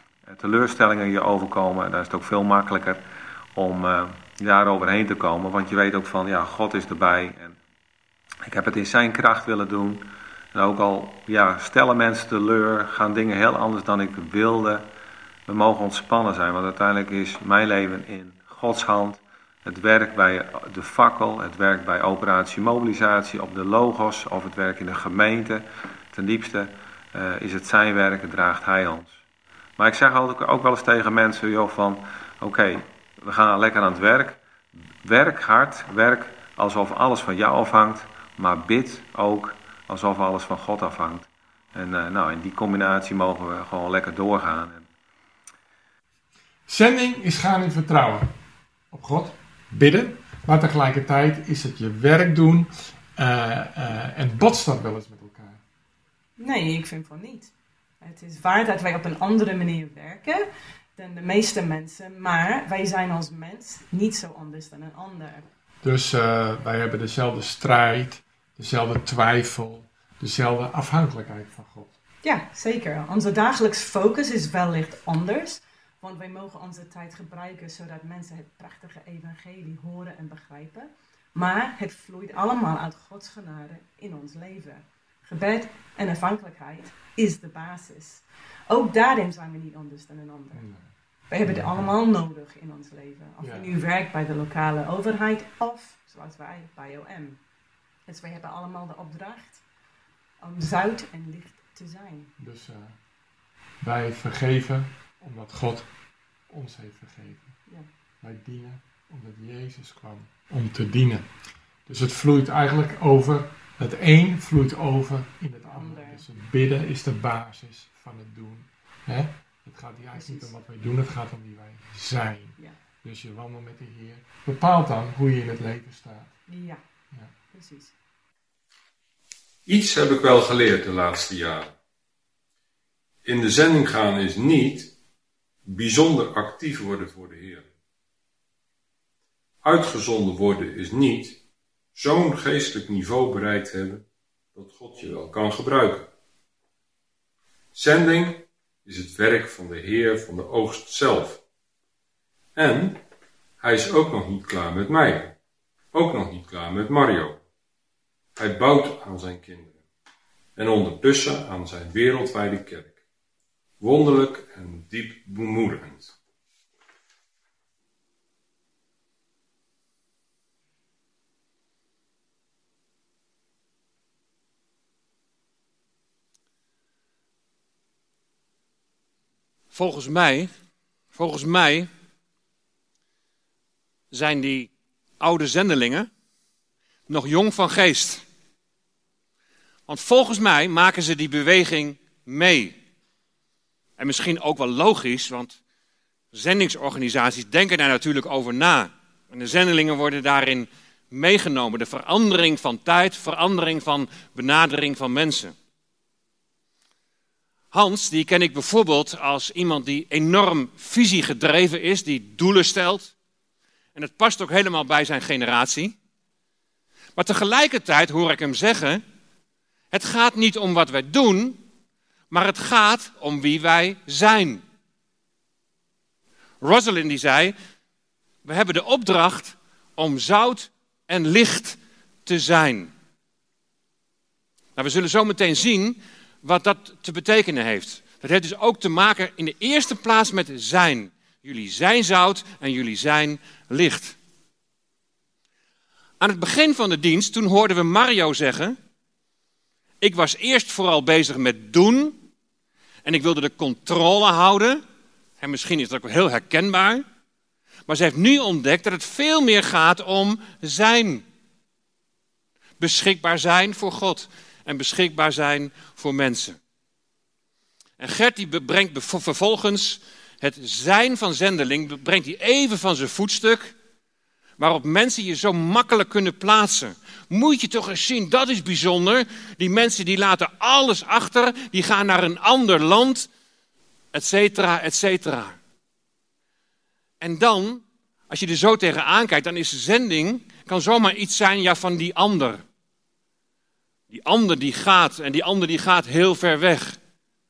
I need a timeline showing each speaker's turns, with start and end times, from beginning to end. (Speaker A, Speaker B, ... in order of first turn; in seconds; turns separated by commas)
Speaker A: 0.2-3.0, Speaker A: 3.5-7.6, Speaker A: 8.4-14.8, Speaker A: 15.5-29.2, Speaker A: 29.8-34.4, Speaker A: 35.0-44.9, Speaker B: 46.7-48.3, Speaker B: 48.9-55.6, Speaker C: 56.4-65.4, Speaker B: 65.8-71.9, Speaker C: 72.2-90.6, Speaker B: 90.5-90.9, Speaker C: 91.3-97.4, Speaker B: 91.4-91.9, Speaker B: 93.4-93.7, Speaker C: 98.0-99.6, Speaker C: 100.4-102.3, Speaker B: 102.4-103.0, Speaker B: 103.8-105.9, Speaker B: 106.5-107.5, Speaker B: 108.2-111.3, Speaker B: 111.9-126.4, Speaker C: 115.7-116.2, Speaker C: 120.1-120.5, Speaker C: 126.5-126.8, Speaker C: 127.5-127.9, Speaker D: 129.7-131.7, Speaker D: 133.2-134.9, Speaker D: 135.6-137.7, Speaker D: 139.6-141.4, Speaker D: 141.9-146.1, Speaker D: 147.7-151.4, Speaker D: 152.6-153.0, Speaker D: 153.6-155.3, Speaker D: 155.9-157.4, Speaker D: 158.3-159.8, Speaker D: 160.6-163.0, Speaker D: 163.8-166.1, Speaker E: 179.7-180.5, Speaker E: 181.1-181.9, Speaker E: 184.1-186.1, Speaker E: 187.1-188.2, Speaker E: 189.9-192.8, Speaker E: 194.0-195.6, Speaker E: 196.3-205.5, Speaker E: 207.7-213.1, Speaker E: 213.9-215.9, Speaker E: 217.2-219.0, Speaker E: 219.9-221.6, Speaker E: 222.3-224.6, Speaker E: 226.6-227.5, Speaker E: 228.4-232.9, Speaker E: 234.8-244.2, Speaker E: 246.2-248.8, Speaker E: 250.0-252.2, Speaker E: 253.0-254.8, Speaker E: 255.4-257.0, Speaker E: 257.9-261.2, Speaker E: 262.8-266.6, Speaker E: 268.0-273.7, Speaker E: 274.6-283.3, Speaker E: 284.1-285.6, Speaker E: 287.2-292.6, Speaker E: 294.1-297.0